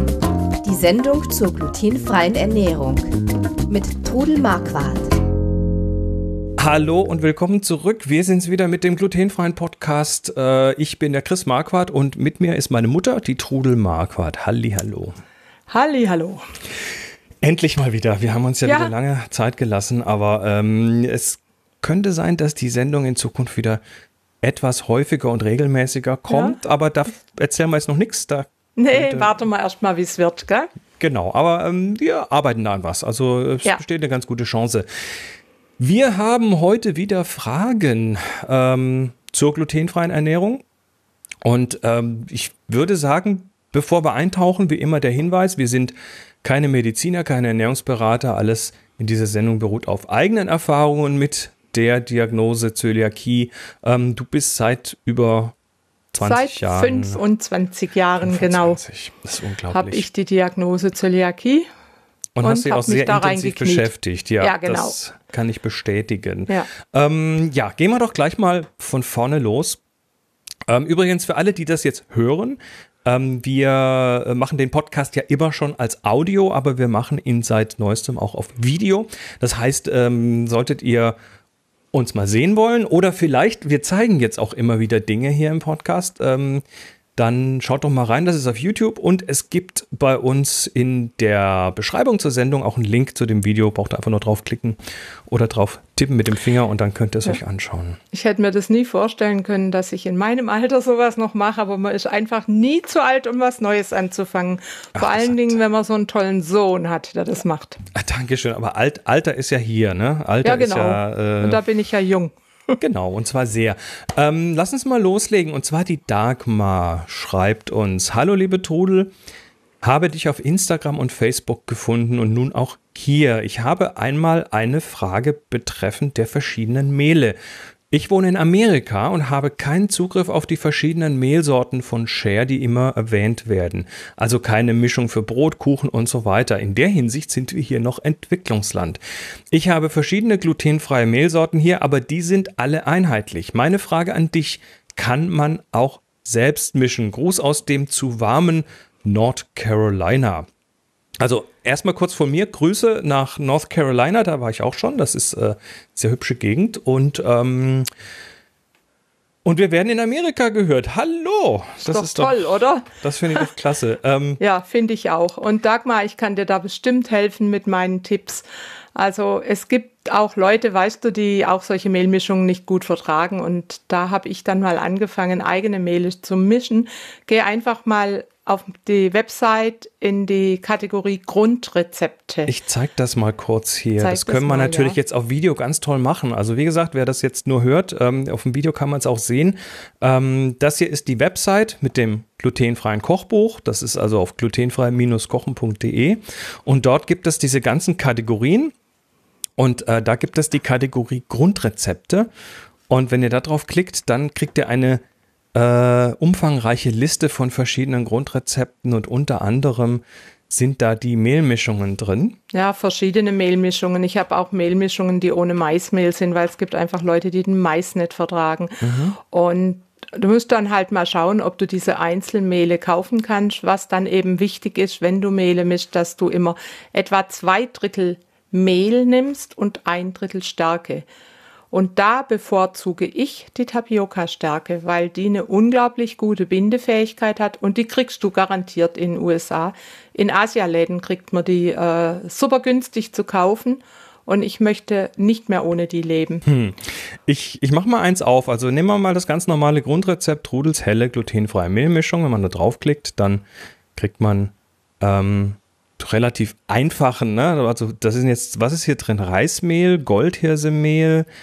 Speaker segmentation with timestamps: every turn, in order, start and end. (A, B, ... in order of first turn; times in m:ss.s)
0:00.6-0:03.1 A
0:03.7-0:05.1 A
0:06.6-0:15.2 B
0:15.7-0:16.4 C
0:17.4-0:23.8 B
0:18.6-0:18.9 C
0:24.4-0:29.4 B
0:26.3-0:26.6 C
0:28.8-0:30.7 C
0:31.0-0:34.9 B
0:35.8-0:40.6 B
0:41.4-0:55.6 B
0:56.1-0:57.2 B
0:56.2-0:58.8 C
0:58.2-1:00.0 B
0:59.7-1:01.7 C
1:02.4-1:09.8 B
1:02.4-1:05.0 C
1:10.7-1:21.2 B
1:21.9-1:26.6 B
1:27.2-1:34.8 B
1:35.3-1:38.0 B
1:38.1-1:47.8 C
1:45.0-1:45.6 B
1:48.0-1:51.6 B
1:50.4-1:52.8 C
1:52.8-1:59.1 B
1:59.8-2:07.4 B
2:07.9-2:19.0 B
2:19.5-2:30.5 B
2:31.2-2:37.9 B
2:39.4-2:44.4 B
2:41.8-2:43.5 C
2:44.4-3:02.5 C
3:02.5-3:18.7 B
3:04.0-3:05.0 C
3:19.6-3:22.3 B
3:22.9-3:25.0 B
3:25.6-3:32.4 B
3:32.5-3:51.1 C
3:38.8-3:39.2 B
3:51.7-4:06.4 C
4:06.5-4:13.4 B
4:14.0-4:21.3 B